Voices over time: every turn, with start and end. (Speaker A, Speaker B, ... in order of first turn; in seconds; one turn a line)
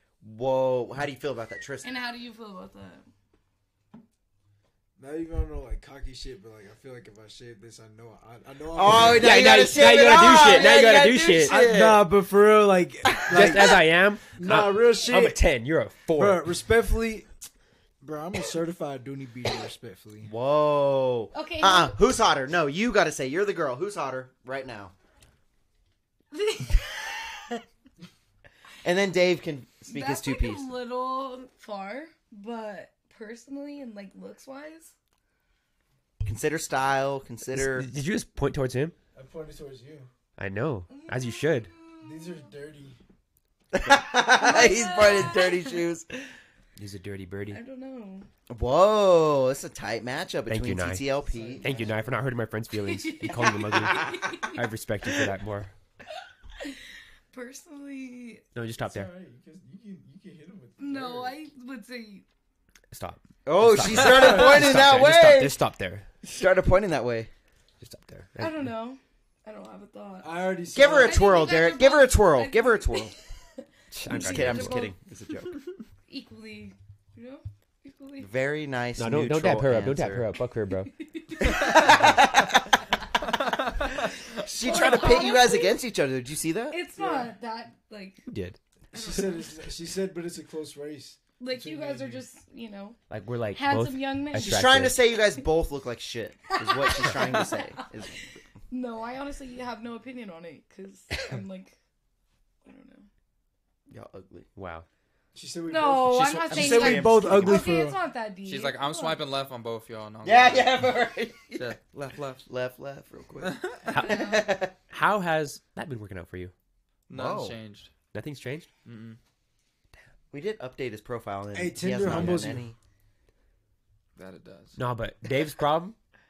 Speaker A: 0.2-1.9
Speaker B: 1.8-3.0
Speaker C: 5.0-9.4
Speaker A: 8.7-12.1
Speaker D: 8.9-11.6
Speaker C: 11.4-15.4
Speaker A: 13.1-13.7
Speaker D: 13.3-16.5
Speaker C: 16.1-17.3
Speaker C: 18.0-20.3
Speaker A: 20.2-24.9
Speaker B: 21.3-22.0
Speaker B: 26.3-27.6
Speaker A: 28.8-30.7
Speaker B: 29.9-34.9
Speaker A: 36.2-37.9
Speaker D: 37.5-38.9
Speaker C: 39.1-40.1
Speaker D: 40.4-41.7
Speaker B: 40.9-42.5
Speaker C: 42.0-43.0
Speaker A: 43.7-46.1
Speaker B: 44.2-45.9
Speaker D: 46.8-47.6
Speaker B: 47.5-48.3
Speaker A: 48.5-51.6
Speaker D: 50.5-51.1
Speaker C: 51.2-52.2
Speaker D: 51.6-55.7
Speaker B: 52.8-54.7
Speaker B: 57.3-58.4
Speaker D: 58.5-59.1
Speaker C: 58.8-61.4
Speaker B: 60.8-62.2
Speaker D: 62.9-66.1
Speaker A: 63.4-65.6
Speaker C: 63.9-64.8
Speaker A: 66.2-67.3
Speaker D: 67.8-68.7
Speaker B: 68.4-73.3
Speaker C: 70.2-71.4
Speaker A: 70.7-73.1
Speaker D: 73.9-74.9
Speaker B: 74.0-74.9
Speaker A: 74.1-75.6
Speaker B: 76.1-78.3
Speaker A: 78.2-80.2
Speaker D: 79.0-80.9
Speaker B: 80.9-82.2
Speaker A: 81.4-82.7
Speaker E: 83.4-83.9
Speaker A: 84.4-86.8
Speaker B: 84.5-85.8
Speaker B: 86.7-88.2
Speaker C: 87.0-87.3
Speaker D: 88.3-88.6
Speaker B: 88.9-89.5
Speaker C: 88.9-92.2
Speaker B: 91.4-93.0
Speaker D: 93.1-95.0
Speaker B: 93.5-94.7
Speaker A: 94.3-98.3
Speaker B: 96.5-97.8
Speaker B: 98.7-101.8
Speaker B: 102.6-103.1
Speaker A: 103.9-104.5
Speaker D: 104.5-104.8
Speaker C: 105.3-108.0
Speaker B: 105.7-109.2
Speaker A: 106.5-107.6
Speaker E: 108.4-110.9
Speaker A: 110.2-111.7
Speaker E: 111.5-112.4
Speaker A: 112.5-114.7
Speaker E: 113.4-113.9
Speaker D: 113.9-114.4
Speaker B: 113.9-114.5
Speaker D: 114.9-116.5
Speaker E: 117.1-117.9
Speaker A: 117.1-117.5
Speaker D: 118.1-118.7
Speaker E: 118.8-119.2
Speaker A: 120.3-122.7
Speaker C: 121.5-122.7
Speaker E: 124.2-124.8
Speaker D: 124.8-126.0